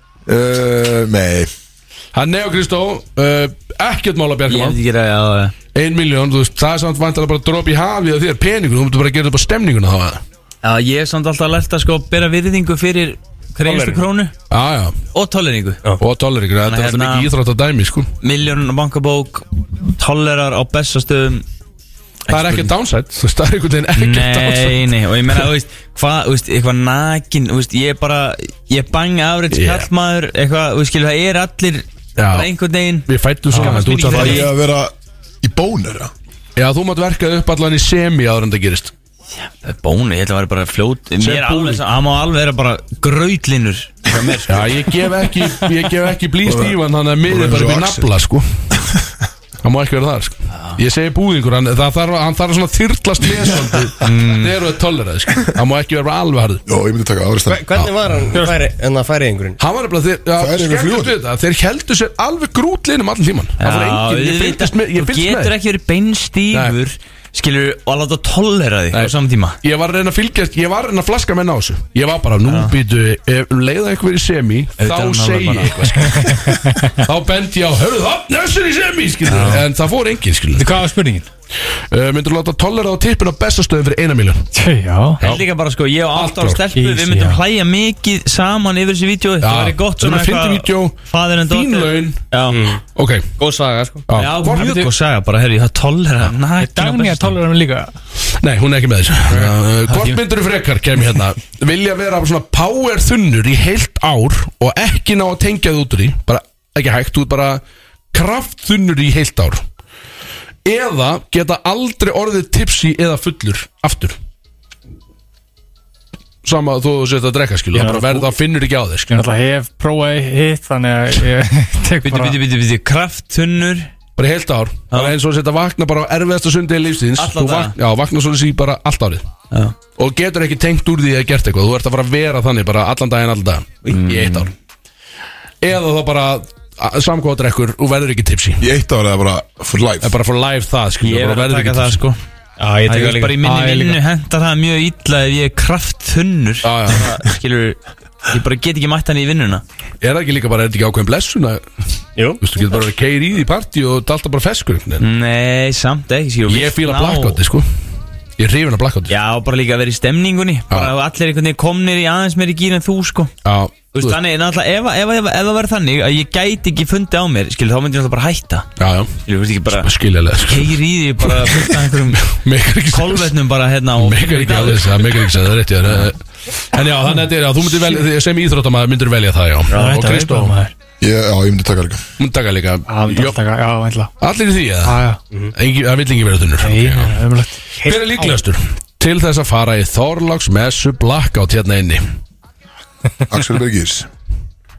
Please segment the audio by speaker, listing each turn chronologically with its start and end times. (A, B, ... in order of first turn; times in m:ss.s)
0:00.3-0:01.5 A
0:02.1-0:04.8 B
0:04.5-0:05.5 C
0:05.8-0:10.2 B
0:10.6-0:14.3 C
0:13.6-0:14.0 D
0:14.5-0:15.0 B
0:15.1-0:15.8 C
0:16.0-0:18.1 B
0:16.7-0:17.3 C
0:18.2-0:21.4 C
0:22.3-0:22.7 C
0:22.3-0:24.9 B
0:24.0-0:34.5 C
0:29.5-0:29.9 B
0:32.2-0:32.5 B
0:33.0-0:34.5 B
0:33.8-0:36.1 A
0:36.6-0:38.9 B
0:39.4-0:44.7 C
0:41.2-0:41.8 B
0:44.5-0:48.5 B
0:46.4-0:48.1 A
0:49.6-0:56.6 B
0:54.0-0:54.5 C
0:56.7-0:57.7 A
0:57.5-0:59.6 D
0:57.7-0:58.4 B
0:59.6-1:05.5 B
1:00.4-1:01.2 A
1:03.6-1:09.6 C
1:06.5-1:06.8 B
1:08.9-1:20.7 B
1:12.5-1:12.7 C
1:14.8-1:16.3 C
1:16.2-1:17.0 E
1:19.3-1:19.6 C
1:20.6-1:21.3 E
1:21.9-1:24.4 B
1:24.5-1:25.2 E
1:25.2-1:32.6 C
1:26.1-1:26.6 B
1:26.8-1:27.4 E
1:29.4-1:32.2 B
1:32.5-1:32.8 D
1:32.9-1:33.3 B
1:33.4-1:34.1 D
1:34.1-1:34.8 B
1:34.2-1:37.4 C
1:34.5-1:34.9 E
1:36.6-1:37.9 E
1:38.4-1:49.6 B
1:39.3-1:40.2 E
1:50.6-1:54.2 B
1:56.4-1:59.2 B
1:57.7-1:58.3 E
1:59.1-2:02.4 E
2:02.0-2:03.9 C
2:04.2-2:09.3 B
2:07.2-2:07.8 C
2:10.0-2:14.5 B
2:13.9-2:14.5 C
2:15.6-2:18.6 B
2:18.6-2:20.1 A
2:20.0-2:22.0 B
2:21.0-2:22.2 C
2:22.6-2:23.4 D
2:22.9-2:29.6 C
2:23.4-2:24.0 E
2:26.6-2:27.1 B
2:30.0-2:31.6 B
2:32.2-2:32.4 D
2:32.4-2:35.1 B
2:35.0-2:37.4 C
2:36.5-2:37.7 B
2:38.4-2:39.2 B
2:39.1-2:43.3 C
2:43.4-2:44.2 B
2:43.9-2:48.7 C
2:48.8-2:53.4 B
2:49.2-2:52.4 C
2:52.9-2:55.3 C
2:54.0-3:00.6 B
2:59.7-3:00.7 E
3:01.0-3:02.0 A
3:02.2-3:03.4 B
3:02.9-3:04.1 E
3:04.2-3:05.0 B
3:04.8-3:05.2 E
3:05.5-3:07.2 B
3:06.6-3:07.8 E
3:07.8-3:12.0 B
3:13.3-3:14.1 A